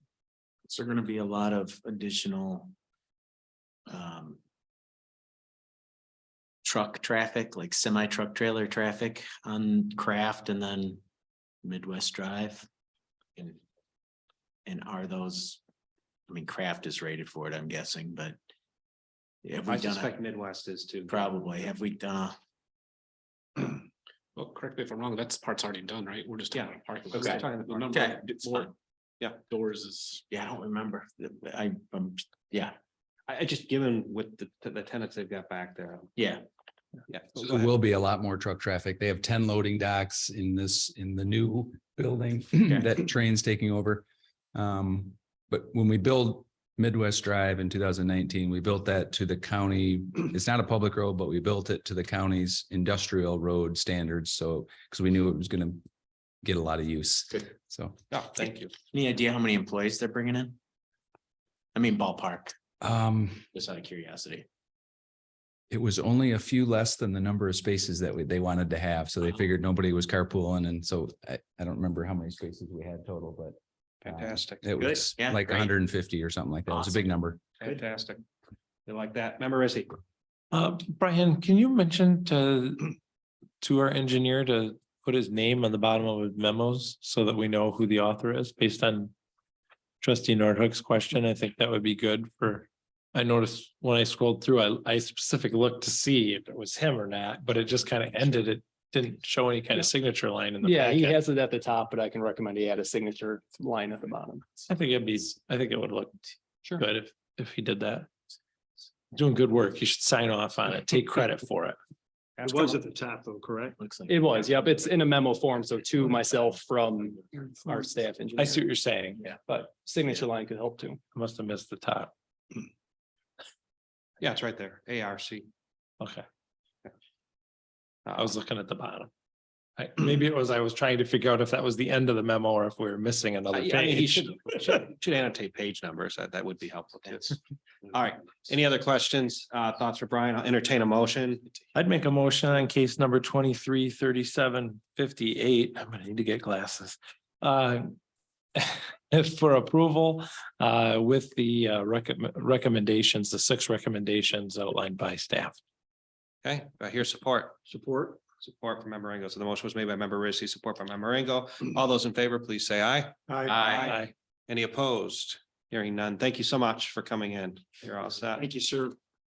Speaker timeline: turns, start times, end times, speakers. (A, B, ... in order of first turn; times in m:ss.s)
0:00.6-0:02.7 A
0:03.9-0:04.4 A
0:06.6-0:11.0 A
0:11.6-0:12.7 A
0:14.6-0:15.6 A
0:16.3-0:18.4 A
0:19.4-0:20.1 A
0:19.6-0:21.3 B
0:21.1-0:22.4 A
0:23.6-0:23.8 C
0:24.4-0:28.6 C
0:26.5-0:28.0 B
0:27.2-0:28.7 A
0:29.5-0:30.2 C
0:30.3-0:32.8 A
0:33.3-0:36.2 B
0:36.2-0:36.4 A
0:37.1-0:37.7 B
0:37.4-0:55.8 D
0:42.7-0:43.0 A
0:56.4-0:58.0 D
0:58.1-0:58.7 B
0:58.9-1:00.6 A
1:01.7-1:02.5 A
1:02.8-1:03.5 D
1:03.5-1:04.4 A
1:05.7-1:17.4 D
1:14.0-1:14.8 B
1:14.9-1:15.6 A
1:16.7-1:17.0 A
1:17.6-1:18.2 B
1:18.8-1:20.0 B
1:20.5-1:23.0 E
1:23.6-1:29.1 E
1:30.0-1:41.2 E
1:40.6-1:44.6 F
1:44.7-1:46.2 E
1:46.7-1:48.1 E
1:49.1-1:51.8 E
1:52.4-1:52.8 B
1:52.4-1:53.8 G
1:53.8-1:54.1 A
1:54.1-1:58.6 F
1:58.4-1:59.2 E
1:59.5-2:01.0 F
2:01.1-2:02.1 E
2:04.2-2:05.5 B
2:08.0-2:08.3 B
2:08.2-2:09.1 E
2:09.8-2:14.3 E
2:13.5-2:17.4 B
2:17.9-2:21.5 B
2:21.7-2:28.0 E
2:28.6-2:35.6 E
2:36.4-2:37.5 B
2:37.6-2:38.2 G
2:38.4-2:48.5 B
2:43.3-2:43.9 G
2:43.8-2:44.1 E
2:48.3-2:48.9 G